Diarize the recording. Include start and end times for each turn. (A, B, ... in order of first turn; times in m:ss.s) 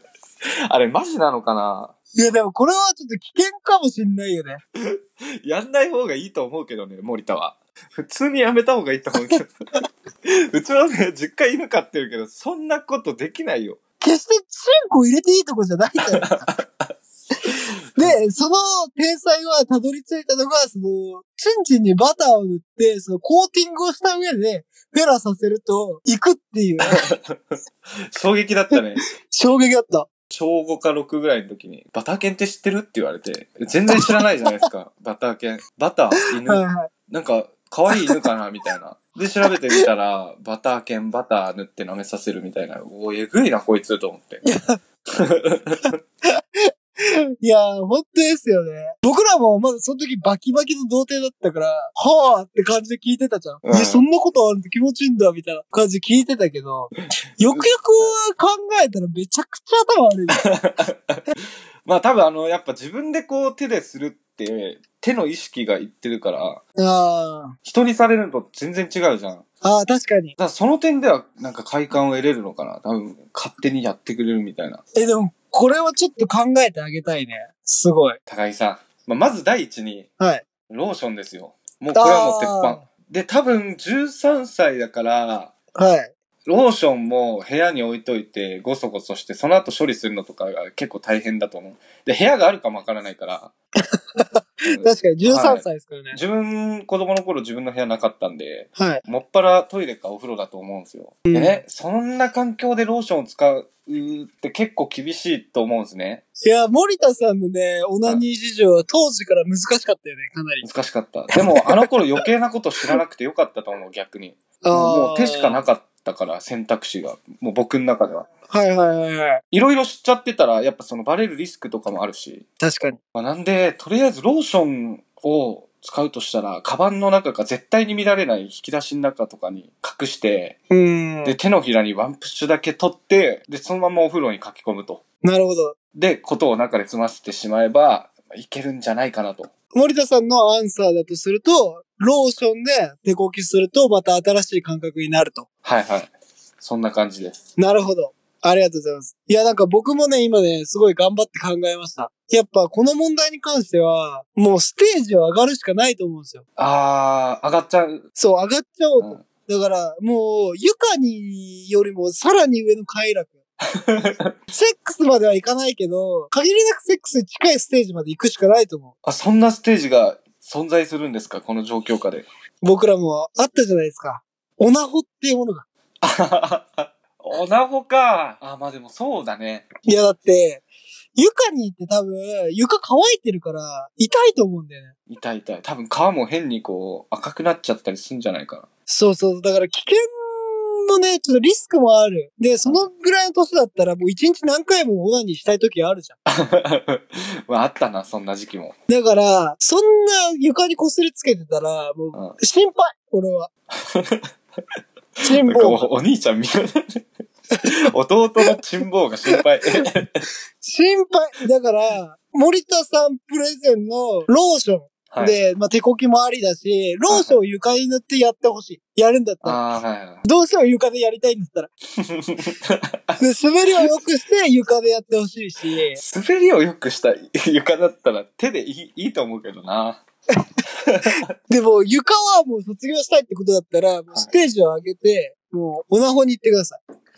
0:00.7-0:01.9 A
0:02.1-0:04.6 B
0:04.8-0:09.5 A
0:10.3-0:13.8 A
0:14.0-0:16.5 B
0:16.2-0:16.9 A
0:18.0-0:27.0 B
0:26.9-0:27.3 A
0:28.1-0:29.0 A
0:28.7-0:30.1 B
0:30.3-0:44.4 A
0:36.4-0:36.9 B
0:37.9-0:38.2 B
0:44.4-0:44.8 B
0:45.1-0:45.9 A
0:47.4-1:00.4 B
0:53.6-0:54.0 A
0:57.4-0:58.1 A
1:00.3-1:01.2 A
1:01.8-1:06.6 A
1:06.8-1:07.6 B
1:07.6-1:09.4 A
1:09.6-1:10.4 B
1:10.4-1:14.8 A
1:14.9-1:18.2 B
1:18.3-1:20.1 A
1:20.2-1:20.4 B
1:20.7-1:25.5 A
1:21.9-1:22.8 B
1:25.8-1:26.1 B
1:26.4-1:33.5 A
1:33.8-1:36.2 B
1:34.6-1:46.2 A
1:38.8-1:39.0 B
1:41.3-1:41.6 B
1:46.4-1:50.6 B
1:50.6-1:58.3 A
1:54.6-1:55.6 B
1:58.5-1:59.4 B
1:59.5-2:02.4 A
2:02.6-2:03.0 B
2:03.1-2:10.6 A
2:10.7-2:11.4 B
2:11.2-2:15.0 A
2:15.2-2:15.7 B
2:15.9-2:19.5 A
2:19.7-2:25.5 B
2:25.6-2:27.4 A
2:27.6-2:36.4 B
2:36.6-2:38.0 A
2:38.2-2:43.4 B
2:43.8-2:44.3 A
2:44.5-2:48.9 B
2:49.0-2:52.3 A
2:52.6-2:55.6 B
2:56.0-2:59.6 A
2:59.8-3:04.9 B
3:05.1-3:08.7 A
3:08.9-3:16.2 B
3:12.6-3:12.9 A
3:16.3-3:18.7 A
3:18.9-3:23.5 B
3:23.9-3:24.2 A
3:25.2-3:27.0 A
3:25.2-3:25.9 B
3:27.7-3:30.2 A
3:30.6-3:39.6 B
3:35.1-3:35.4 A
3:37.1-3:37.4 A
3:39.4-3:40.2 A
3:40.2-3:41.7 B
3:42.1-3:43.2 A
3:43.2-3:46.0 B
3:45.9-3:50.0 A
3:50.8-3:51.2 A
3:51.5-3:56.8 B